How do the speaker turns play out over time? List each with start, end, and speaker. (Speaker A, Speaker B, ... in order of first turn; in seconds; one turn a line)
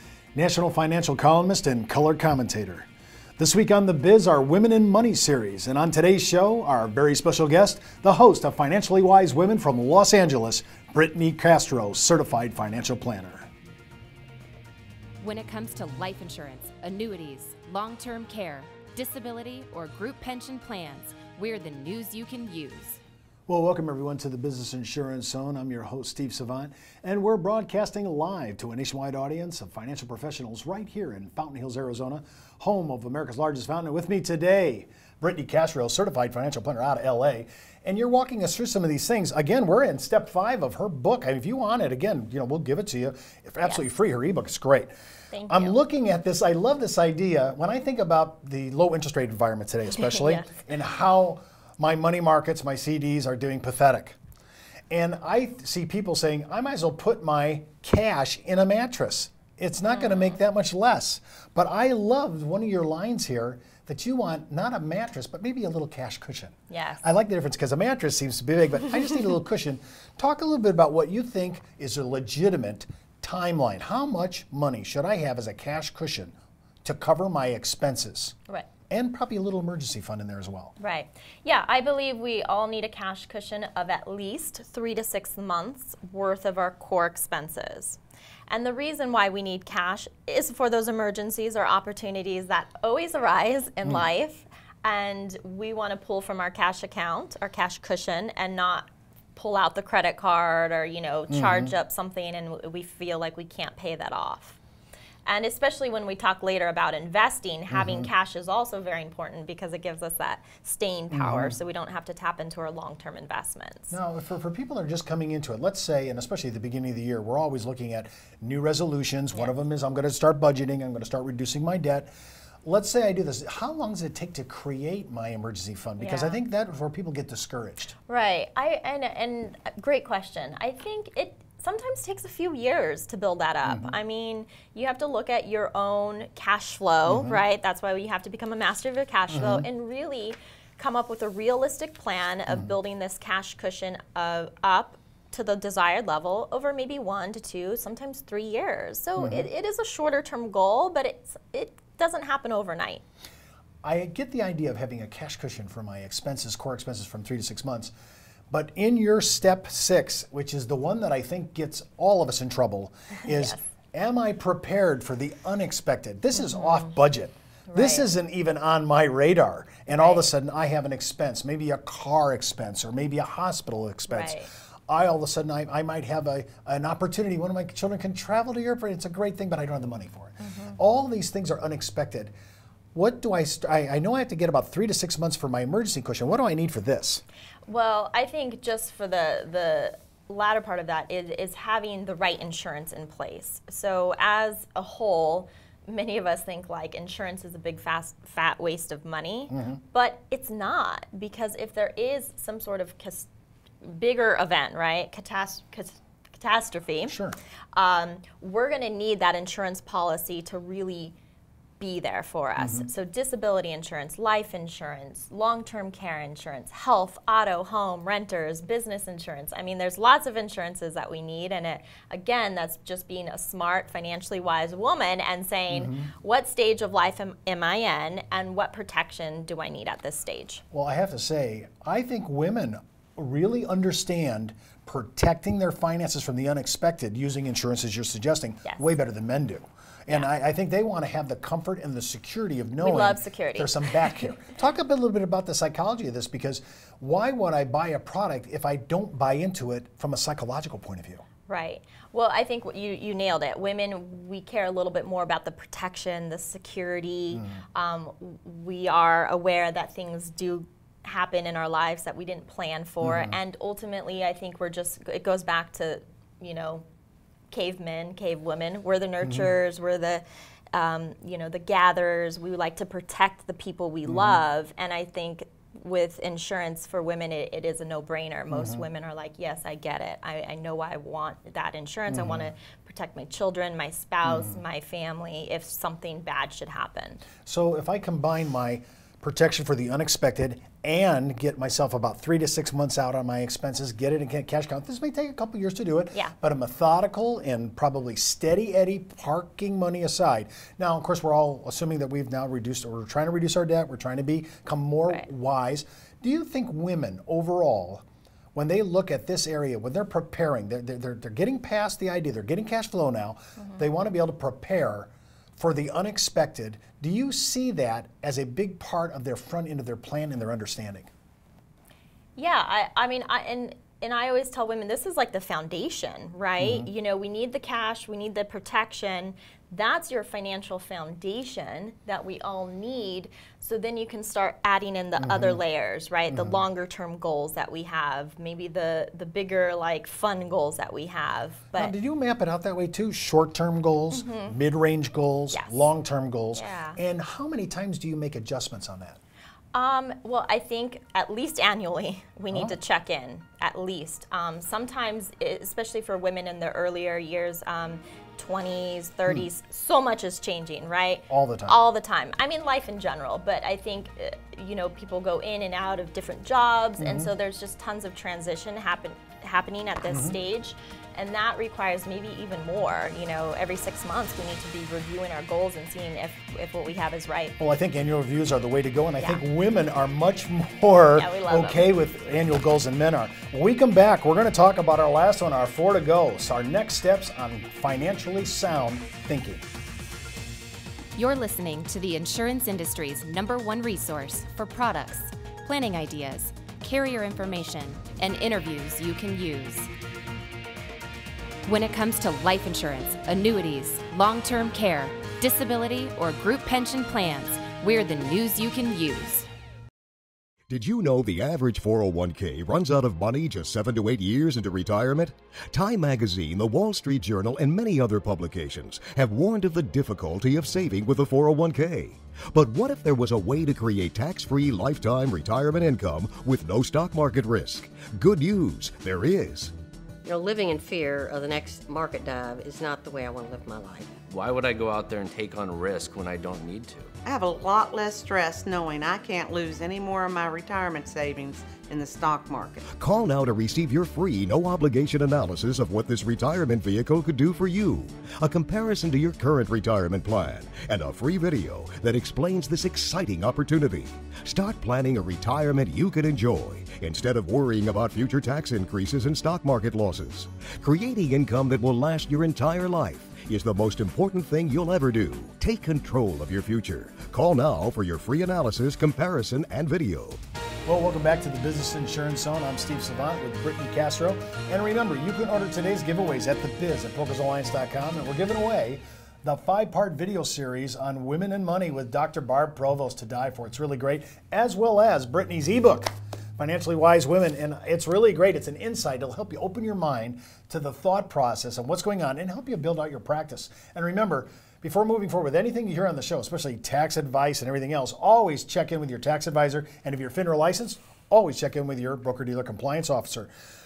Speaker A: 0.3-13.5
Speaker B: 15.2-23.0
Speaker A: 23.5-44.9
Speaker A: 45.5-54.2
Speaker A: 54.9-78.3
Speaker A: 78.9-80.7
Speaker C: 80.8-88.0
Speaker C: 88.5-104.6
Speaker A: 101.3-101.7
Speaker C: 105.2-113.9
Speaker A: 107.7-108.1
Speaker A: 111.1-111.5
Speaker A: 113.9-122.1
Speaker A: 122.6-127.9
Speaker C: 126.0-126.3
Speaker C: 128.1-153.0
Speaker A: 133.6-133.9
Speaker A: 137.1-137.4
Speaker A: 139.3-139.7
Speaker A: 142.5-142.7
Speaker A: 149.2-149.5
Speaker A: 153.8-157.9
Speaker A: 158.5-182.3
Speaker C: 167.7-168.0
Speaker C: 169.9-170.2
Speaker C: 174.1-174.5
Speaker A: 182.9-187.2
Speaker C: 187.7-203.2
Speaker A: 199.5-199.8
Speaker C: 203.9-207.1
Speaker A: 207.0-207.4
Speaker C: 207.7-211.1
Speaker C: 211.8-230.6
Speaker A: 212.6-212.9
Speaker A: 225.7-226.1
Speaker A: 230.7-251.2
Speaker C: 243.0-243.6
Speaker C: 251.5-266.8
Speaker A: 257.3-257.6
Speaker A: 263.0-263.4
Speaker C: 267.5-270.2
Speaker A: 269.2-269.5
Speaker C: 270.7-287.2
Speaker A: 274.1-274.4
Speaker A: 278.5-278.8
Speaker A: 282.1-282.5
Speaker A: 284.2-284.6
Speaker A: 287.4-308.0
Speaker A: 308.5-321.1
Speaker C: 322.4-341.9
Speaker A: 326.6-326.9
Speaker A: 335.2-335.6
Speaker A: 336.3-336.6
Speaker A: 341.7-349.2
Speaker C: 344.1-344.5
Speaker C: 346.6-346.9
Speaker C: 349.7-361.1
Speaker A: 361.3-361.8
Speaker C: 361.7-377.5
Speaker A: 367.0-367.3
Speaker A: 370.1-370.4
Speaker A: 377.6-389.6
Speaker C: 381.1-381.8
Speaker B: 391.1-399.9
Speaker B: 401.6-409.5
Speaker D: 410.7-429.7
Speaker E: 430.2-434.1
Speaker F: 434.3-437.1
Speaker G: 437.2-442.8
Speaker D: 442.9-470.4
Speaker A: 470.9-503.5